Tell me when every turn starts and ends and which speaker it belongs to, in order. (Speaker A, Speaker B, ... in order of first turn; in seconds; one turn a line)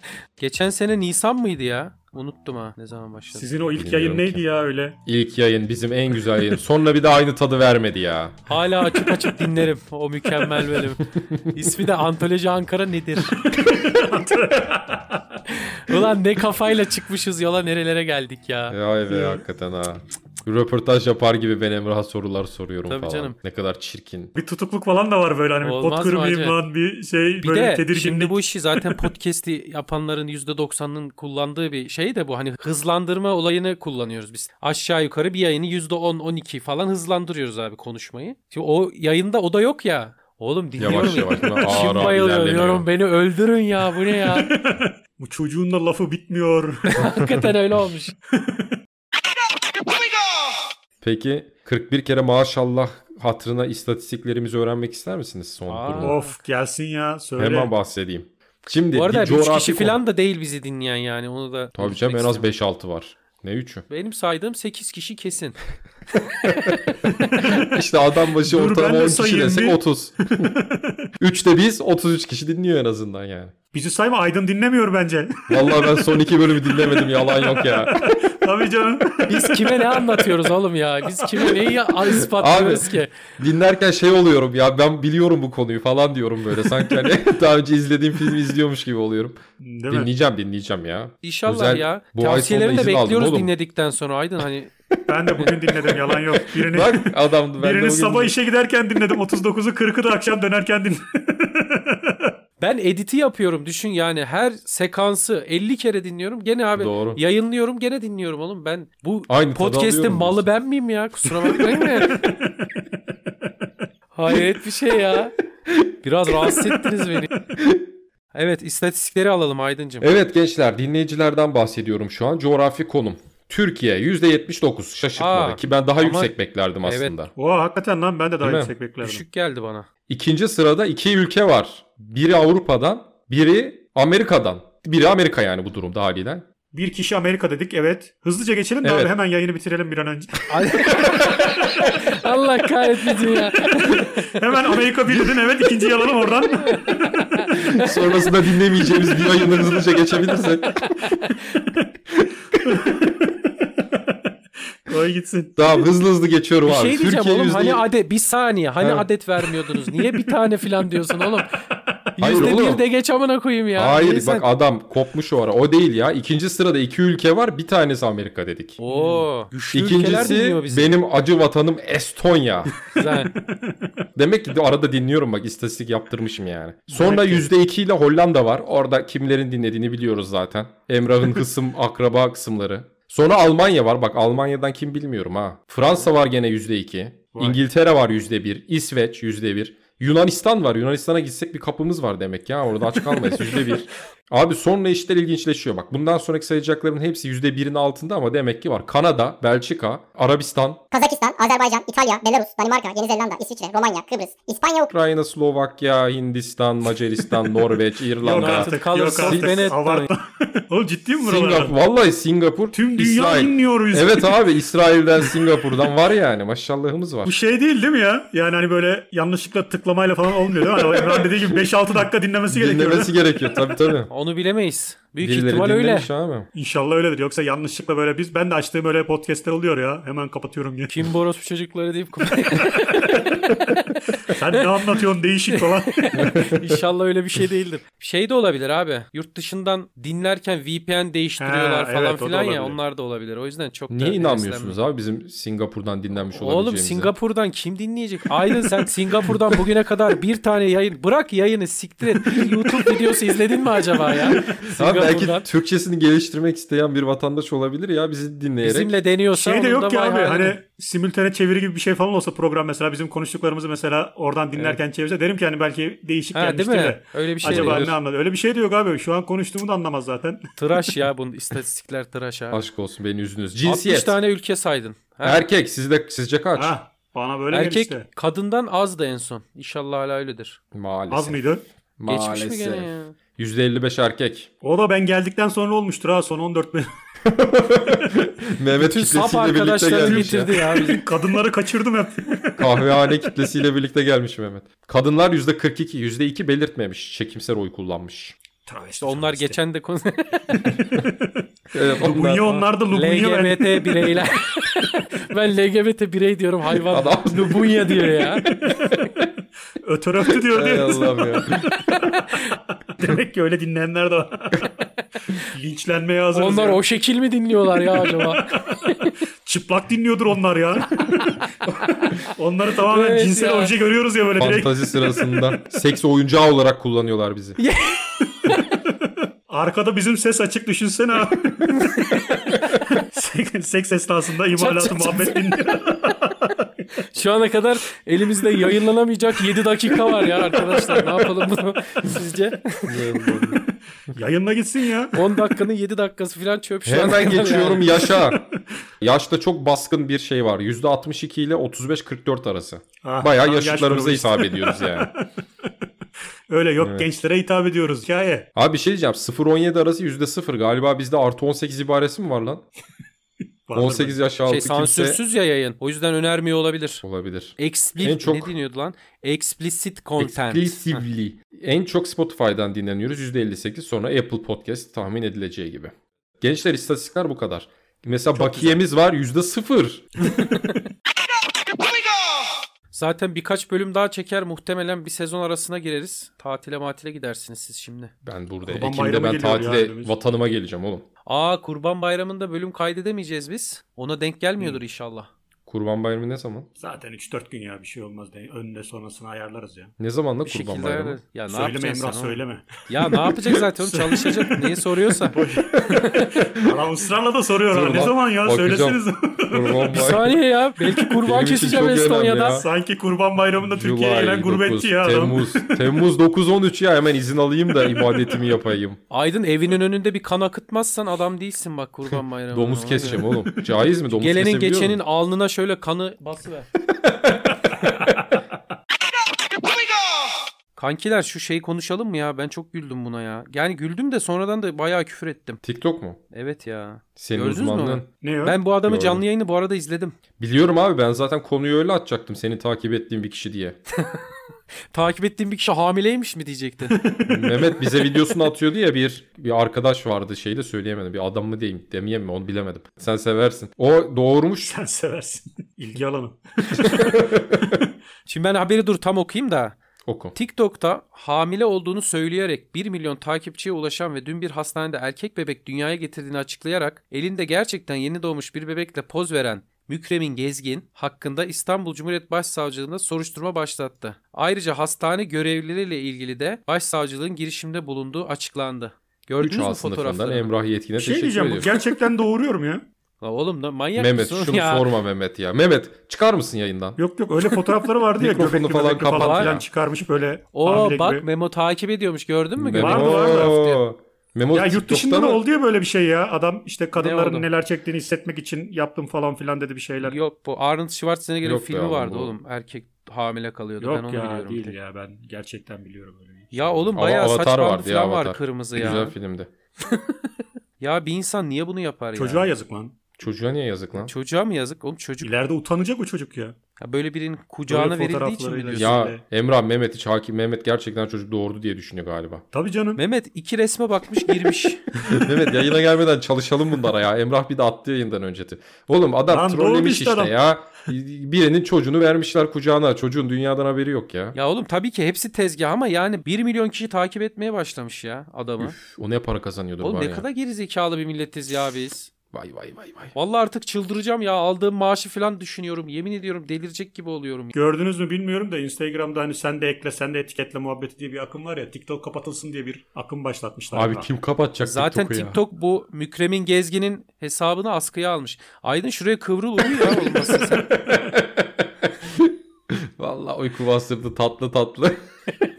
Speaker A: 0.4-3.5
Speaker B: 3.4-5.0
Speaker C: 3.8-4.4
Speaker C: 5.1-8.4
Speaker A: 8.5-13.4
Speaker C: 11.2-11.5
Speaker B: 13.3-15.4
Speaker A: 15.5-19.4
Speaker C: 18.7-24.3
Speaker A: 22.9-23.4
Speaker B: 24.4-29.1
Speaker A: 25.6-26.6
Speaker A: 27.4-44.5
Speaker C: 40.8-42.9
Speaker B: 44.2-47.0
Speaker A: 46.9-48.1
Speaker B: 48.3-48.8
Speaker C: 51.0-56.2
Speaker A: 55.7-56.3
Speaker B: 56.0-57.7
Speaker C: 57.4-60.0
Speaker A: 58.9-62.5
Speaker C: 61.8-63.9
Speaker A: 63.9-65.6
Speaker A: 66.4-67.0
Speaker C: 66.4-70.5
Speaker B: 67.4-67.8
Speaker B: 68.4-69.8
Speaker B: 70.4-71.0
Speaker C: 71.2-73.5
Speaker B: 73.7-76.0
Speaker C: 75.5-78.2
Speaker B: 76.6-80.5
Speaker A: 79.3-83.1
Speaker C: 82.0-93.5
Speaker B: 89.6-90.1
Speaker A: 91.2-94.7
Speaker B: 95.1-102.3
Speaker C: 96.4-98.3
Speaker A: 102.6-112.2
Speaker C: 106.8-107.2
Speaker C: 109.3-110.5
Speaker A: 114.1-115.3
Speaker A: 116.0-117.3
Speaker C: 117.6-117.9
Speaker A: 118.3-120.1
Speaker C: 120.0-127.3
Speaker A: 125.2-126.3
Speaker A: 126.8-127.2
Speaker B: 127.4-129.2
Speaker C: 128.4-128.7
Speaker A: 129.0-129.9
Speaker C: 130.1-136.5
Speaker B: 136.7-140.7
Speaker C: 138.8-139.1
Speaker A: 140.5-144.3
Speaker C: 141.1-141.3
Speaker B: 143.5-147.1
Speaker A: 146.6-147.9
Speaker C: 147.5-151.0
Speaker A: 150.3-151.7
Speaker C: 152.1-153.0
Speaker B: 152.7-154.1
Speaker B: 154.9-155.7
Speaker C: 155.6-157.8
Speaker A: 156.6-161.6
Speaker C: 158.8-159.1
Speaker A: 162.2-164.5
Speaker C: 162.2-162.8
Speaker C: 163.8-168.8
Speaker A: 168.8-170.9
Speaker B: 168.9-169.3
Speaker C: 169.7-172.8
Speaker A: 172.9-173.4
Speaker B: 173.4-173.7
Speaker C: 174.2-200.8
Speaker A: 176.9-177.5
Speaker D: 200.9-204.9
Speaker C: 204.9-209.7
Speaker B: 208.2-211.8
Speaker A: 208.4-210.1
Speaker C: 211.2-217.3
Speaker B: 212.7-214.5
Speaker B: 217.2-223.2
Speaker C: 220.9-221.2
Speaker C: 222.5-224.1
Speaker A: 224.1-226.1
Speaker C: 225.2-226.5
Speaker B: 226.5-230.9
Speaker A: 230.9-234.9
Speaker B: 234.3-236.0
Speaker A: 235.5-244.8
Speaker C: 236.2-236.8
Speaker B: 241.4-242.8
Speaker C: 243.9-247.1
Speaker A: 246.3-255.5
Speaker C: 252.2-253.0
Speaker C: 254.1-258.9
Speaker A: 258.6-260.6
Speaker B: 259.3-270.5
Speaker A: 266.3-267.9
Speaker C: 267.4-267.9
Speaker A: 270.6-272.6
Speaker C: 272.5-274.2
Speaker A: 273.6-275.5
Speaker C: 275.2-276.8
Speaker B: 276.6-278.1
Speaker A: 277.5-280.6
Speaker C: 280.7-281.4
Speaker B: 281.1-281.6
Speaker C: 282.0-284.5
Speaker A: 282.1-283.2
Speaker B: 284.6-286.9
Speaker C: 287.2-290.8
Speaker A: 288.8-291.1
Speaker B: 290.0-292.9
Speaker C: 292.6-298.4
Speaker B: 298.7-299.6
Speaker A: 299.0-300.8
Speaker B: 300.6-301.4
Speaker C: 301.7-302.6
Speaker B: 302.0-304.2
Speaker A: 302.5-308.6
Speaker C: 306.9-309.1
Speaker B: 309.8-314.7
Speaker C: 310.5-311.8
Speaker A: 311.9-312.5
Speaker B: 315.4-316.8
Speaker A: 316.3-319.1
Speaker B: 318.0-318.9
Speaker B: 319.4-321.3
Speaker A: 321.0-322.1
Speaker B: 322.2-325.6
Speaker A: 322.9-323.7
Speaker C: 324.4-327.6
Speaker A: 327.6-328.8
Speaker B: 329.5-332.3
Speaker A: 331.7-332.8
Speaker B: 332.9-336.7
Speaker A: 334.5-336.1
Speaker A: 337.1-343.2
Speaker B: 340.1-341.1
Speaker C: 342.9-343.6
Speaker B: 344.1-345.2
Speaker A: 345.1-348.0
Speaker C: 346.9-348.4
Speaker C: 349.0-355.1
Speaker B: 353.0-355.2
Speaker B: 356.5-358.5
Speaker C: 356.8-357.1
Speaker C: 358.6-362.6
Speaker B: 363.7-364.2
Speaker C: 363.8-365.2
Speaker A: 364.5-367.0
Speaker C: 367.0-368.5
Speaker A: 367.6-371.0
Speaker C: 370.2-380.1
Speaker B: 378.4-378.8
Speaker A: 382.9-388.1
Speaker C: 388.2-391.1
Speaker B: 388.7-390.1
Speaker A: 391.3-395.3
Speaker C: 395.7-396.7
Speaker B: 396.8-399.9
Speaker C: 400.0-401.2
Speaker A: 400.4-406.5
Speaker B: 401.5-404.8
Speaker B: 405.3-409.9
Speaker C: 407.7-410.3
Speaker A: 409.9-412.6
Speaker C: 411.2-412.7
Speaker B: 412.6-415.8
Speaker C: 413.8-419.0
Speaker A: 419.1-423.2
Speaker C: 422.5-425.0
Speaker A: 424.1-426.7
Speaker C: 427.0-427.5
Speaker A: 430.8-435.6
Speaker C: 435.6-436.2
Speaker A: 436.3-440.2
Speaker C: 437.2-438.1
Speaker B: 438.2-438.6
Speaker C: 438.9-439.2
Speaker C: 440.4-443.8
Speaker A: 444.0-444.2
Speaker A: 444.9-447.0
Speaker B: 446.9-447.7
Speaker C: 447.3-454.7
Speaker B: 454.7-457.0
Speaker C: 456.9-457.6
Speaker A: 458.3-459.8
Speaker C: 460.1-460.3
Speaker A: 460.3-480.5
Speaker C: 479.4-481.8
Speaker B: 481.0-482.9
Speaker A: 483.2-484.9
Speaker C: 484.0-487.0
Speaker B: 487.0-491.3
Speaker C: 488.2-489.6
Speaker A: 489.1-489.6
Speaker A: 490.6-493.8
Speaker C: 492.6-495.4
Speaker B: 492.8-493.6
Speaker B: 494.5-500.2
Speaker A: 497.0-497.5
Speaker A: 500.0-504.8
Speaker C: 501.4-502.4
Speaker B: 503.8-506.9
Speaker A: 506.5-509.1
Speaker C: 506.9-509.5
Speaker A: 509.9-510.2
Speaker A: 510.8-512.5
Speaker B: 512.1-513.0
Speaker C: 513.2-514.1
Speaker A: 514.0-515.3
Speaker B: 515.2-516.6
Speaker A: 516.8-519.0
Speaker B: 517.7-519.2
Speaker C: 518.7-522.4
Speaker B: 522.5-523.0
Speaker A: 523.0-524.9
Speaker C: 525.0-534.4
Speaker B: 529.3-530.4
Speaker A: 534.4-538.8
Speaker C: 538.6-540.2
Speaker A: 539.8-542.1
Speaker C: 542.3-543.1
Speaker A: 543.1-547.5
Speaker B: 547.5-554.1
Speaker C: 553.7-555.4
Speaker A: 554.6-560.8
Speaker C: 560.5-565.0